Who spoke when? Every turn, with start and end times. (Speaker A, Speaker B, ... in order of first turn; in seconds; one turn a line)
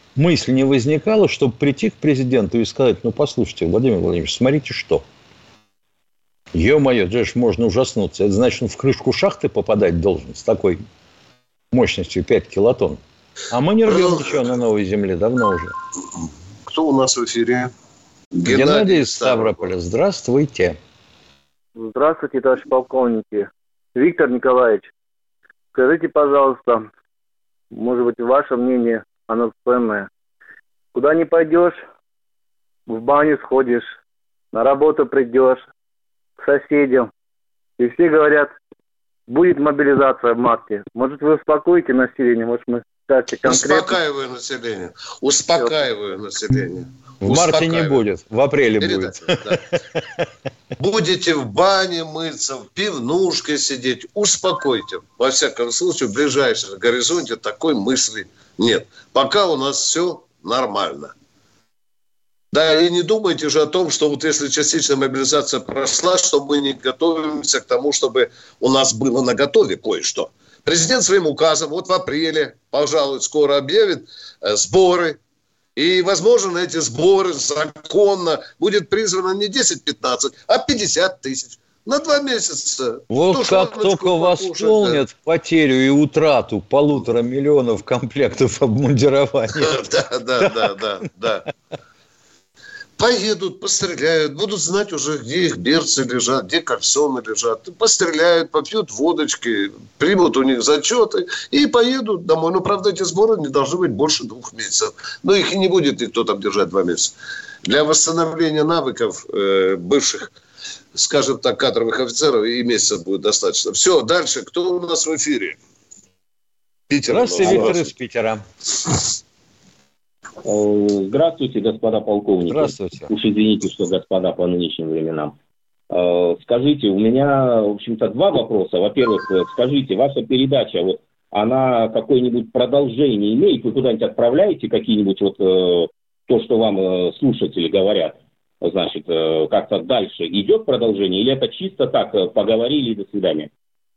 Speaker A: 0.1-5.0
Speaker A: 6.5-10.8
Speaker A: 11.7-13.0
Speaker A: 13.5-15.7
Speaker B: 13.8-14.5
Speaker B: 16.6-17.7
Speaker B: 18.3-19.7
Speaker A: 18.4-20.8
Speaker C: 21.8-24.9
Speaker C: 25.7-26.9
Speaker C: 27.7-30.1
Speaker C: 30.9-31.8
Speaker C: 32.9-33.9
Speaker C: 34.5-35.6
Speaker C: 36.4-37.1
Speaker C: 37.8-38.5
Speaker C: 39.3-43.9
Speaker B: 43.4-48.0
Speaker A: 47.2-49.6
Speaker B: 48.8-49.6
Speaker B: 50.8-61.1
Speaker B: 62.5-75.2
Speaker B: 75.8-85.0
Speaker A: 83.1-89.8
Speaker B: 89.6-91.5
Speaker B: 93.0-110.3
Speaker B: 110.9-115.6
Speaker B: 116.9-117.9
Speaker A: 117.1-118.4
Speaker D: 117.4-117.7
Speaker D: 120.4-125.3
Speaker A: 122.5-123.1
Speaker D: 125.9-143.5